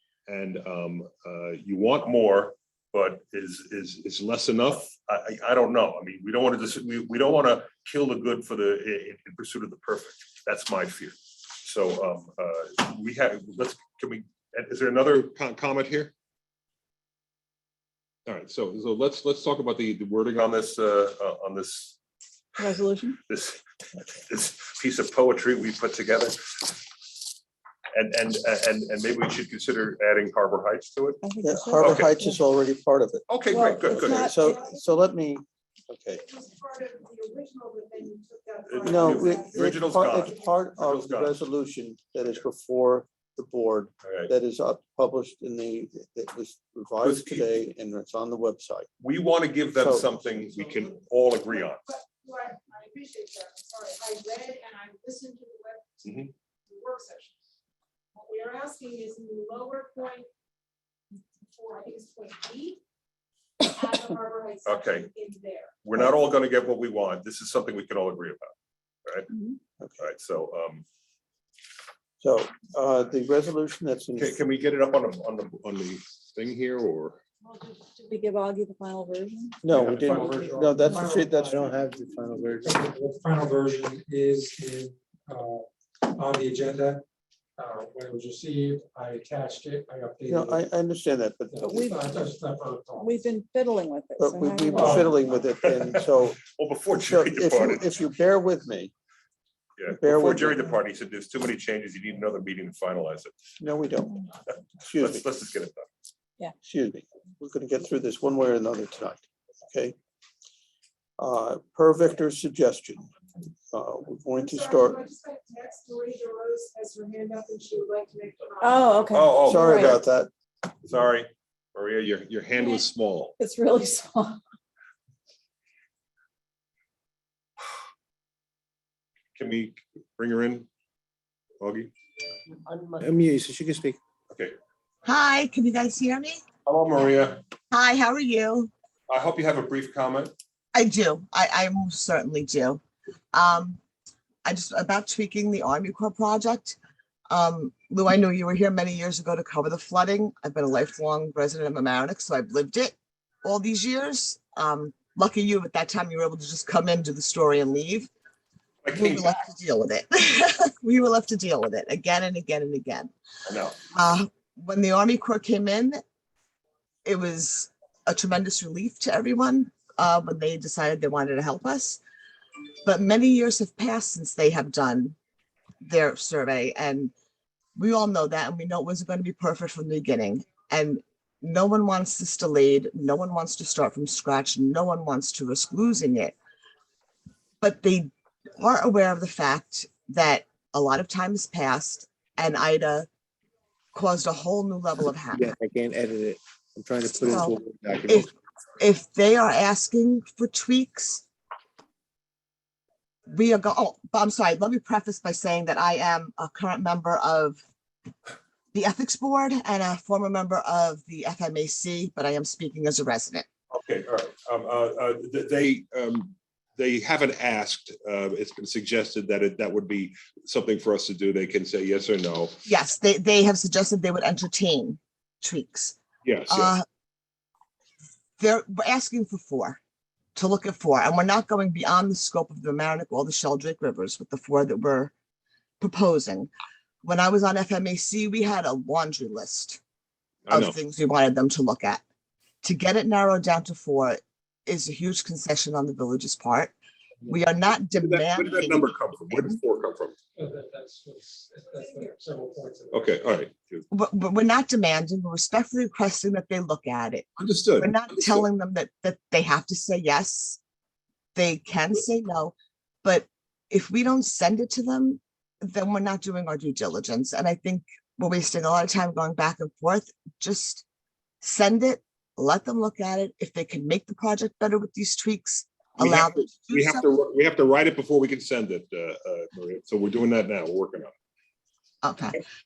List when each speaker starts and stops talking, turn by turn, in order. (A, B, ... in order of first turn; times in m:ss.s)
0:00.3-0:16.1 A
0:18.2-0:22.0 A
0:22.6-0:23.1 B
0:23.2-0:23.6 A
0:24.1-0:26.8 A
0:27.9-0:31.2 A
0:31.2-0:32.2 B
0:31.4-0:32.3 C
0:31.4-0:33.3 D
0:31.8-0:32.1 A
0:33.3-0:34.3 A
0:33.5-0:34.4 B
0:33.9-0:36.2 D
0:34.0-0:34.4 C
0:36.3-0:39.6 E
0:38.7-0:41.4 A
0:38.8-0:48.9 D
0:44.0-0:44.3 A
0:47.0-0:47.5 A
0:49.0-0:51.8 A
0:49.8-0:50.1 D
0:51.8-0:55.9 E
0:56.0-0:56.3 A
0:56.7-0:57.3 E
0:58.2-1:00.3 E
1:01.5-1:02.8 E
1:03.6-1:05.7 E
1:04.6-1:05.1 A
1:05.8-1:08.5 A
1:10.0-1:10.8 A
1:12.2-1:14.4 D
1:14.2-1:17.2 A
1:17.9-1:19.6 B
1:19.6-1:21.5 D
1:19.7-1:21.9 F
1:19.9-1:20.4 A
1:21.5-1:22.8 C
1:22.6-1:27.0 F
1:27.6-1:30.6 F
1:30.3-1:32.0 D
1:31.5-1:33.2 F
1:31.6-1:31.9 B
1:33.0-1:34.8 B
1:34.2-1:36.4 D
1:34.7-1:35.2 F
1:35.8-1:38.1 A
1:36.9-1:38.9 D
1:39.8-1:43.3 A
1:40.0-1:40.8 D
1:43.6-1:44.2 D
1:44.8-1:45.2 D
1:45.0-1:45.9 A
1:46.6-1:50.0 D
1:51.2-1:53.1 D
1:53.7-1:55.0 D
1:54.4-1:59.1 E
1:58.6-1:59.9 C
1:59.1-2:00.1 A
1:59.4-2:00.3 D
2:00.8-2:03.3 A
2:03.4-2:04.3 B
2:03.8-2:04.4 C
2:09.4-2:10.7 A
2:11.6-2:11.9 A
2:13.0-2:14.0 C
2:14.3-2:14.5 A
2:15.0-2:16.4 G
2:16.7-2:17.4 A
2:17.7-2:18.7 G
2:19.1-2:20.3 A
2:20.7-2:22.8 G
2:23.3-2:23.8 G
2:24.4-2:26.8 G
2:27.3-2:38.1 G
2:38.8-2:39.4 A
2:38.9-2:43.1 G
2:43.5-2:43.8 A
2:43.9-2:46.0 G
2:47.0-2:52.0 G
2:52.8-2:55.2 G
2:55.8-2:57.1 G
2:57.8-3:06.3 G
3:07.6-3:13.1 G
3:13.9-3:15.5 G
3:15.3-3:18.2 C
3:17.2-3:21.2 G
3:23.3-3:27.6 G
3:28.7-3:33.5 G
3:33.7-3:42.6 A
3:42.7-3:46.8 G
3:46.2-3:46.7 A
3:48.4-3:49.8 G
3:50.3-3:55.1 G
3:55.8-3:56.5 G
3:57.0-3:59.8 G
4:00.5-4:00.8 A
4:00.5-4:02.0 G
4:02.6-4:06.7 G
4:07.3-4:09.6 G
4:08.0-4:10.2 A
4:10.3-4:13.2 F
4:12.9-4:13.8 A
4:13.9-4:17.3 G
4:17.4-4:18.4 A
4:17.8-4:20.6 G
4:21.4-4:30.8 G
4:31.4-4:37.0 G
4:36.0-4:41.1 A
4:42.0-4:42.4 G